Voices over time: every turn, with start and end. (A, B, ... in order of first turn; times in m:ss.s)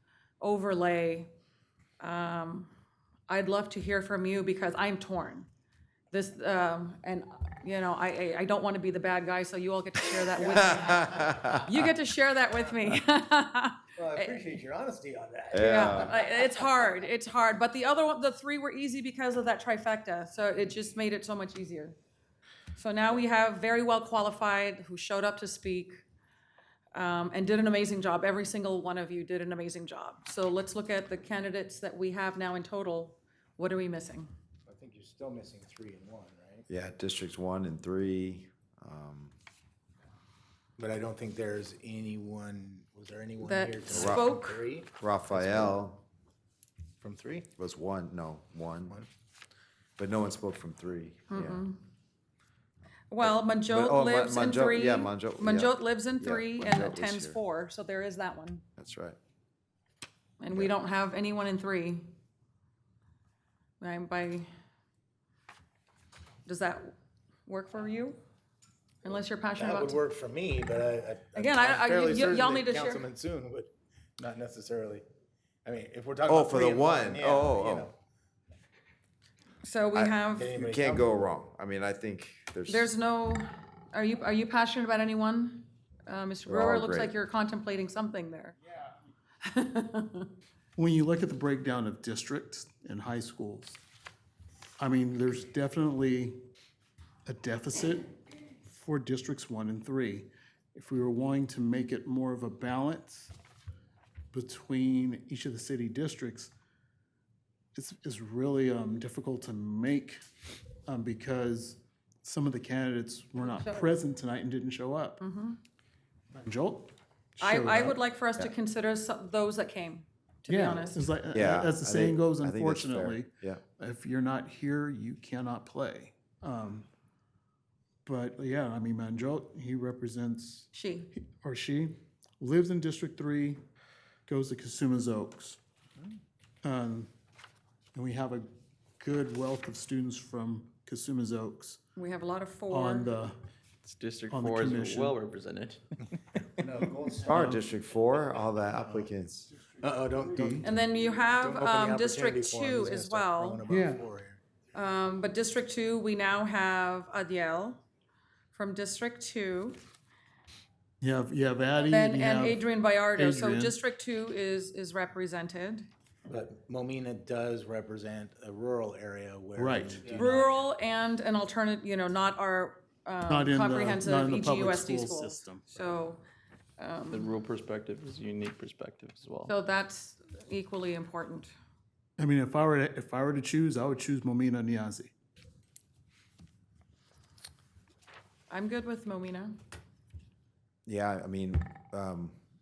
0:00.4-0:01.3 A
0:02.0-0:02.7 A
0:03.3-0:05.5 A
0:06.1-0:14.4 A
0:10.6-0:11.7 B
0:14.0-0:16.6 C
0:15.5-0:16.2 B
0:15.6-0:22.0 A
0:22.8-0:26.0 A
0:27.0-0:34.3 A
0:34.7-0:36.6 C
0:36.7-0:39.3 B
0:40.8-0:45.8 C
0:43.4-0:44.6 A
0:43.9-0:44.3 B
0:45.0-0:46.0 B
0:47.0-0:47.5 C
0:47.6-0:49.0 B
0:50.0-0:51.6 B
0:51.3-0:51.8 A
0:53.1-0:58.6 A
0:53.2-0:57.4 B
0:58.8-0:59.2 B
1:00.4-1:02.1 A
1:03.8-1:04.5 A
1:06.5-1:06.9 A
1:07.5-1:08.2 A
1:09.0-1:10.0 A
1:09.6-1:15.0 C
1:11.4-1:13.1 A
1:15.6-1:18.0 C
1:16.3-1:17.9 B
1:19.6-1:20.5 A
1:19.9-1:22.9 B
1:20.3-1:21.2 C
1:22.7-1:28.6 A
1:26.5-1:27.1 B
1:29.4-1:30.3 A
1:30.8-1:33.8 D
1:34.8-1:36.4 D
1:37.3-1:43.3 D
1:44.3-1:46.5 D
1:47.7-1:50.2 D
1:50.9-1:55.2 D
1:53.4-1:53.9 A
1:55.2-1:55.6 A
1:56.3-1:58.0 D
1:57.4-2:01.0 A
2:00.5-2:06.9 D
2:01.3-2:03.6 B
2:08.0-2:13.6 D
2:10.7-2:11.1 A
2:14.3-2:15.6 D
2:16.6-2:17.1 D
2:18.0-2:18.5 D
2:19.0-2:21.8 D
2:22.0-2:23.1 A
2:22.7-2:23.4 D
2:23.8-2:26.0 E
2:24.3-2:25.2 D
2:26.8-2:29.5 B
2:27.3-2:27.6 D
2:29.8-2:30.7 C
2:30.4-2:30.7 D
2:30.6-2:33.6 A
2:31.3-2:34.4 C
2:33.7-2:34.0 D
2:34.7-2:37.8 A
2:38.5-2:39.8 A
2:41.0-2:43.8 D
2:41.8-2:45.9 A
2:46.3-2:50.6 C
2:49.6-2:50.0 D
2:50.1-2:56.2 A
2:53.3-2:55.8 D
2:56.8-2:57.3 A
2:57.1-2:59.5 E
2:59.5-3:01.5 A
3:02.2-3:05.1 D
3:08.5-3:09.6 A
3:10.9-3:12.4 B